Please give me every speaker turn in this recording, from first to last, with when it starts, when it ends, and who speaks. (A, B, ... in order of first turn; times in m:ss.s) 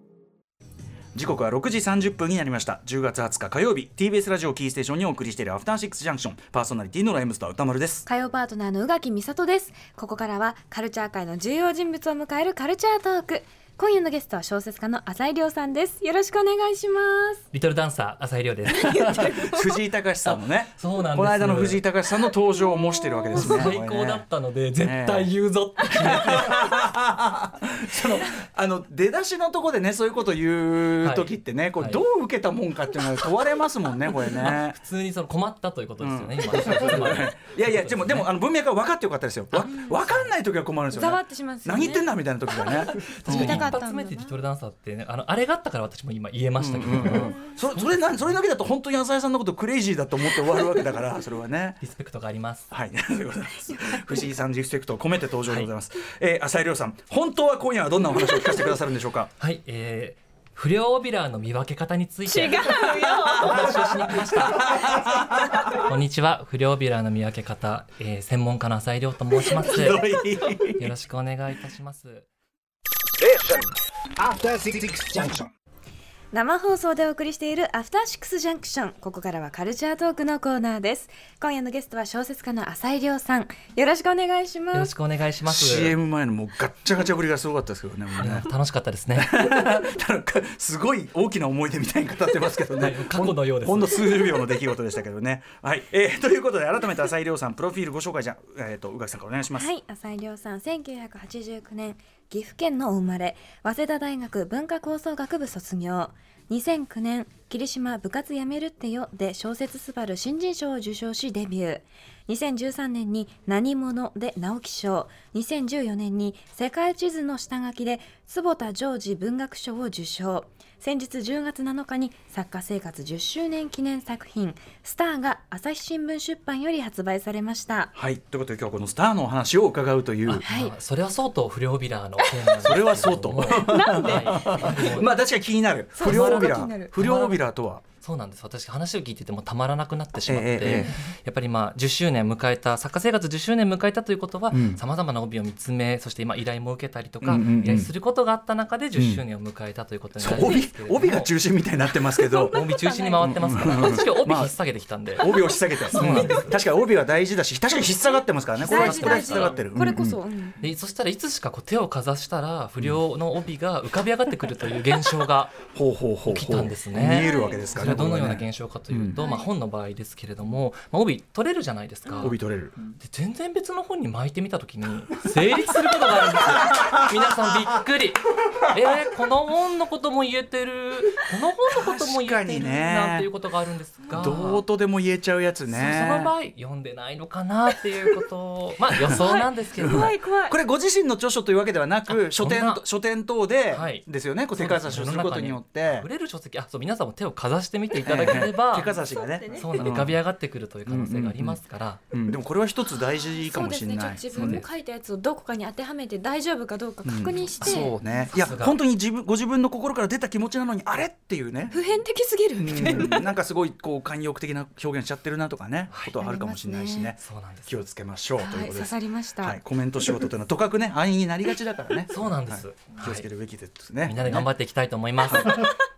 0:01.2-0:08.1 A
0:08.1-0:17.4 B
0:17.5-0:19.2 C
0:18.7-0:19.8 B
0:18.9-0:24.3 A
0:20.3-0:21.8 C
0:22.3-0:23.8 B
0:23.4-0:26.7 C
0:24.8-0:25.3 A
0:25.9-0:34.8 A
0:31.0-0:32.0 C
0:34.3-0:38.3 C
0:36.0-0:43.7 A
0:39.5-0:40.3 C
0:39.7-0:40.0 B
0:40.9-0:44.3 B
0:43.1-0:48.1 C
0:46.6-0:51.8 A
0:51.8-0:52.7 C
0:52.7-0:59.3 A
0:53.7-0:54.3 B
0:59.4-1:05.0 C
1:02.3-1:03.8 B
1:03.3-1:05.8 A
1:05.7-1:12.3 C
1:09.6-1:10.9 A
1:13.2-1:15.5 D
1:16.3-1:24.9 B
1:24.7-1:26.0 C
1:25.5-1:28.5 A
1:28.2-1:29.7 C
1:29.2-1:39.7 A
1:32.8-1:34.3 C
1:39.6-2:07.9 B
2:08.0-2:10.4 A
2:10.3-2:15.1 C
2:10.4-2:10.8 B
2:12.6-2:17.8 A
2:13.5-2:15.0 B
2:16.0-2:16.9 B
2:16.0-2:17.4 C
2:18.0-2:31.3 C
2:20.3-2:21.0 A
2:24.5-2:24.8 A
2:27.2-2:27.9 A
2:29.0-2:29.2 A
2:30.2-2:32.6 A
2:30.4-2:30.6 B
2:32.2-2:34.0 B
2:32.4-2:35.4 C
2:33.2-2:34.5 A
2:35.2-2:40.2 A
2:35.2-2:36.5 B
2:35.9-2:36.6 C
2:37.9-2:40.6 B
2:38.6-2:39.6 C
2:40.6-2:45.6 C
2:45.7-2:49.2 A
2:46.2-2:52.4 C
2:47.0-2:47.6 B
2:49.2-2:49.5 B
2:52.2-2:52.8 A
2:53.0-3:04.6 C
2:56.7-2:57.0 A
3:01.7-3:03.3 A
3:04.1-3:06.3 A
3:05.7-3:10.1 C
3:09.0-3:09.2 A
3:09.1-3:10.6 B
3:09.8-3:16.1 A
3:12.1-3:12.8 C
3:13.7-3:18.9 C
3:18.0-3:20.2 A
3:18.8-3:20.0 B
3:19.5-3:22.0 C
3:20.9-3:24.6 A
3:23.1-3:28.3 B
3:24.4-3:24.7 C
3:27.0-3:31.8 A
3:28.3-3:28.8 C
3:31.7-3:33.3 B
3:32.6-3:44.5 A
3:35.9-3:36.2 C
3:36.2-3:37.1 B
3:37.2-3:37.8 C
3:38.4-3:40.2 B
3:42.1-3:43.3 C
3:44.0-3:45.7 C
3:45.3-3:45.7 A
3:45.4-3:45.8 B